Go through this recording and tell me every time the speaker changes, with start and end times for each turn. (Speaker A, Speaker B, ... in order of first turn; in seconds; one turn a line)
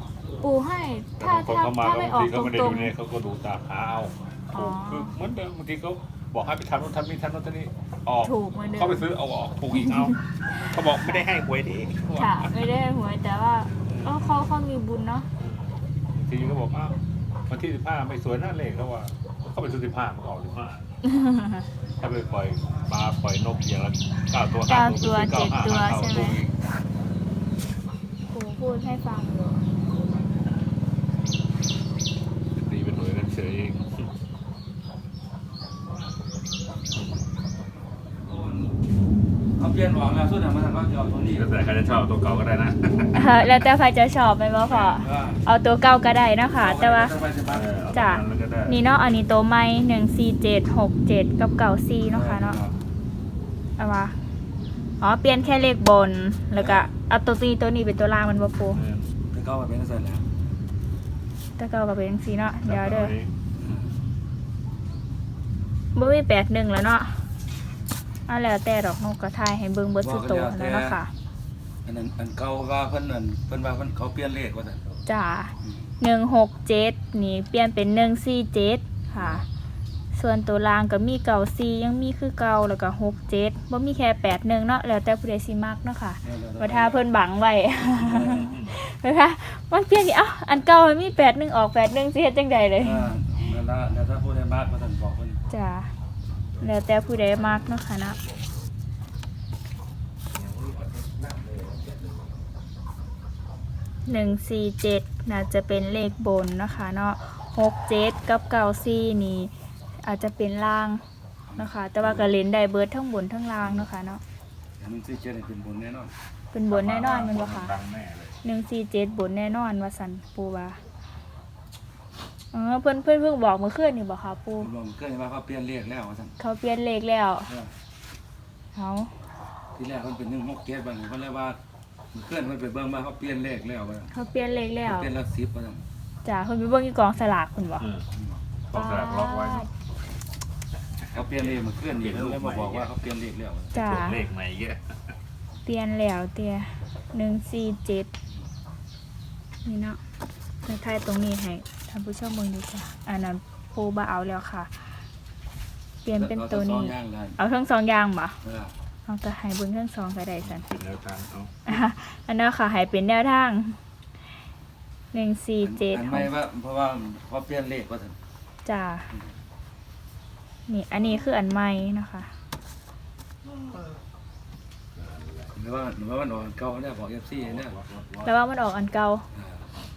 Speaker A: 0.4-2.9
Speaker B: 1.2-12.5
Speaker A: 4.5-5.2
Speaker A: 8.2-9.1
Speaker A: 9.7-11.3
Speaker A: 12.1-15.3
Speaker B: 13.9-14.4
Speaker B: 15.4-20.9
Speaker A: 21.0-21.6
Speaker B: 22.0-26.6
Speaker A: 24.6-26.4
Speaker A: 28.3-29.7
Speaker B: 32.6-34.0
Speaker C: 38.2-38.8
Speaker C: 39.5-41.4
Speaker B: 41.3-43.5
Speaker A: 43.1-47.2
Speaker C: 44.6-45.4
Speaker C: 46.5-47.7
Speaker B: 47.4-48.8
Speaker A: 47.9-52.6
Speaker C: 52.1-52.8
Speaker A: 53.8-54.2
Speaker A: 55.0-58.8
Speaker C: 56.5-56.9
Speaker B: 58.7-59.1
Speaker C: 59.3-60.3
Speaker A: 61.6-63.1
Speaker B: 62.6-63.3
Speaker C: 63.6-64.0
Speaker A: 65.9-67.3
Speaker A: 68.3-71.1
Speaker C: 70.0-71.0
Speaker C: 71.8-75.0
Speaker A: 75.0-79.5
Speaker C: 79.1-79.4
Speaker A: 80.1-93.2
Speaker C: 86.2-87.0
Speaker C: 87.9-88.6
Speaker B: 88.2-88.8
Speaker C: 92.8-95.4
Speaker A: 95.5-95.9
Speaker A: 96.6-98.2
Speaker C: 100.4-101.8
Speaker A: 104.0-111.0
Speaker A: 111.6-114.2
Speaker C: 114.8-116.1
Speaker A: 116.5-117.7
Speaker B: 116.7-118.4
Speaker A: 118.4-120.8
Speaker A: 122.5-124.7
Speaker C: 124.6-126.3
Speaker A: 126.4-127.5
Speaker C: 127.5-127.7
Speaker A: 128.7-129.1
Speaker C: 129.7-131.6
Speaker C: 132.1-134.1
Speaker A: 134.1-135.1
Speaker C: 134.8-135.8
Speaker A: 136.2-137.9
Speaker B: 137.8-138.0
Speaker C: 138.1-138.4
Speaker B: 138.7-139.7
Speaker A: 138.7-139.7
Speaker B: 141.1-142.9
Speaker C: 141.1-143.8
Speaker B: 143.7-144.8
Speaker A: 143.7-144.2
Speaker A: 145.6-148.1
Speaker A: 149.6-150.0
Speaker A: 150.6-155.0
Speaker A: 156.0-158.4
Speaker C: 156.1-157.4
Speaker C: 158.4-158.7
Speaker A: 159.1-160.7
Speaker B: 160.4-161.5
Speaker A: 161.7-163.8
Speaker A: 165.1-166.3
Speaker C: 165.6-168.2
Speaker A: 168.6-169.1
Speaker A: 170.7-172.3
Speaker B: 175.0-175.5
Speaker C: 175.5-177.8
Speaker B: 177.4-178.3
Speaker A: 178.2-179.3
Speaker C: 179.3-179.7